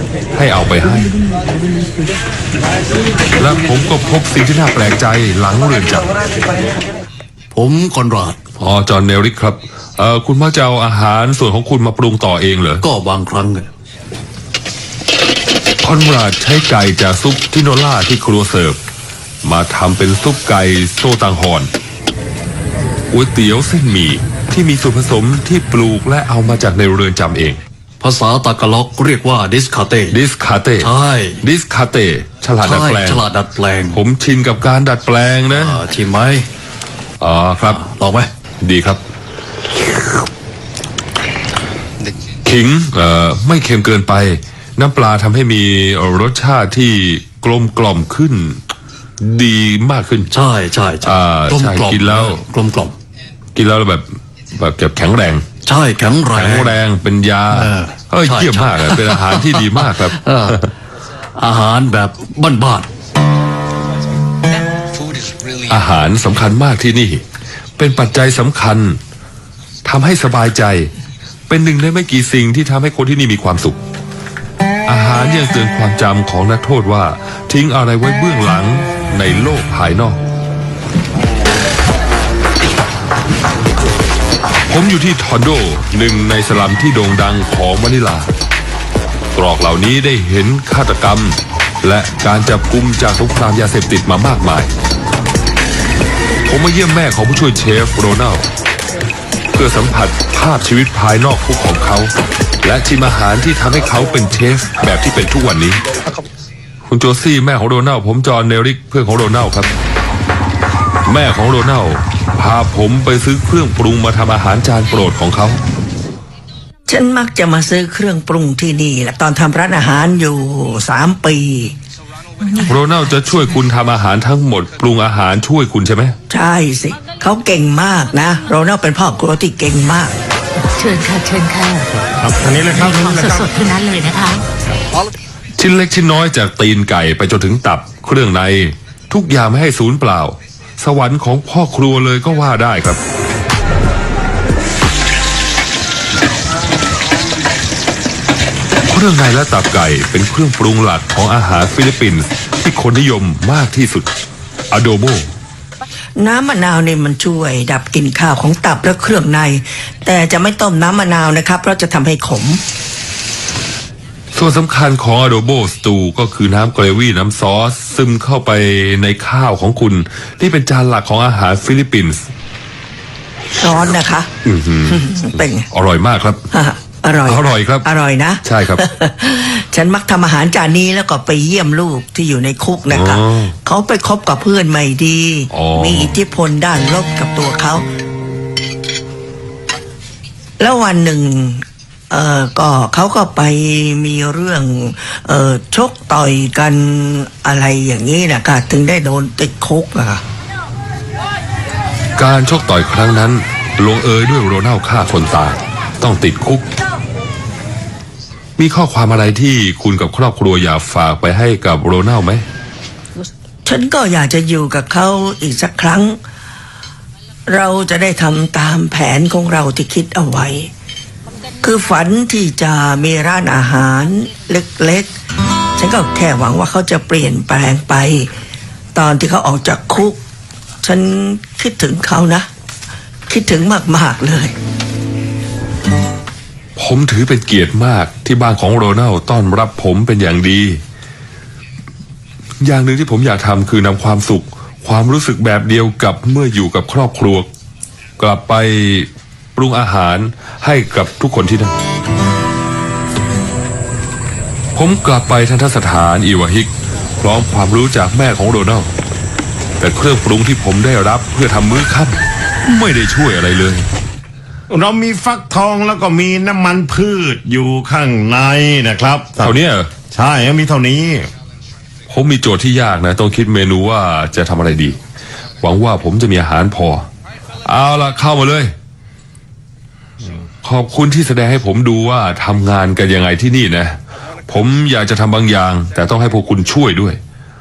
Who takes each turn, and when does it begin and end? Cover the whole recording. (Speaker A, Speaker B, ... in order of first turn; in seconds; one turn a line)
Speaker A: 0.3-1.2
Speaker A: 3.4-6.1
Speaker B: 7.5-8.4
Speaker A: 8.6-12.8
Speaker B: 12.8-13.7
Speaker A: 15.8-18.8
Speaker A: 19.4-21.7
Speaker A: 23.1-27.6
Speaker B: 28.0-30.2
Speaker A: 30.1-30.9
Speaker B: 30.8-31.4
Speaker A: 31.4-33.2
Speaker B: 32.6-34.0
Speaker A: 33.9-35.8
Speaker B: 35.5-36.5
Speaker A: 37.2-37.8
Speaker B: 37.7-38.3
Speaker A: 38.6-39.0
Speaker A: 42.4-48.6
Speaker A: 49.2-50.3
Speaker B: 50.3-52.9
Speaker A: 51.0-52.4
Speaker A: 53.5-55.5
Speaker B: 55.6-56.7
Speaker A: 56.3-60.7
Speaker B: 57.5-60.7
Speaker B: 61.4-62.9
Speaker A: 65.5-67.2
Speaker A: 67.8-69.0
Speaker A: 69.8-70.9
Speaker A: 71.5-73.8
Speaker A: 74.8-80.2
Speaker A: 84.5-88.3
Speaker A: 89.3-94.7
Speaker A: 96.5-98.5
Speaker A: 99.5-105.8
Speaker A: 106.8-109.7
Speaker A: 111.0-115.6
Speaker C: 116.9-121.8
Speaker A: 122.6-126.2
Speaker C: 126.3-130.1
Speaker D: 130.7-134.4
Speaker E: 132.2-133.4
Speaker A: 135.6-143.0
Speaker A: 148.9-154.1
Speaker A: 154.7-155.3
Speaker C: 156.2-162.6
Speaker A: 164.3-172.3
Speaker C: 173.6-174.3
Speaker A: 174.4-176.4
Speaker C: 174.9-175.7
Speaker C: 176.5-187.8
Speaker A: 177.2-177.8
Speaker A: 178.4-178.8
Speaker A: 182.9-183.5
Speaker A: 185.5-186.1
Speaker C: 190.6-200.2
Speaker A: 202.2-206.7
Speaker A: 208.6-212.4
Speaker C: 213.6-216.2
Speaker C: 217.5-220.7
Speaker C: 221.6-225.1
Speaker C: 225.8-228.3
Speaker C: 228.9-230.2
Speaker C: 230.8-232.5
Speaker C: 233.3-234.5
Speaker A: 236.8-240.8
Speaker A: 242.6-247.5
Speaker A: 248.2-251.7
Speaker A: 254.7-258.9
Speaker A: 259.8-263.9
Speaker E: 264.7-269.5
Speaker A: 269.4-269.9
Speaker E: 270.1-271.3
Speaker A: 272.1-275.0
Speaker A: 275.6-277.1
Speaker A: 277.6-278.7
Speaker A: 280.6-287.2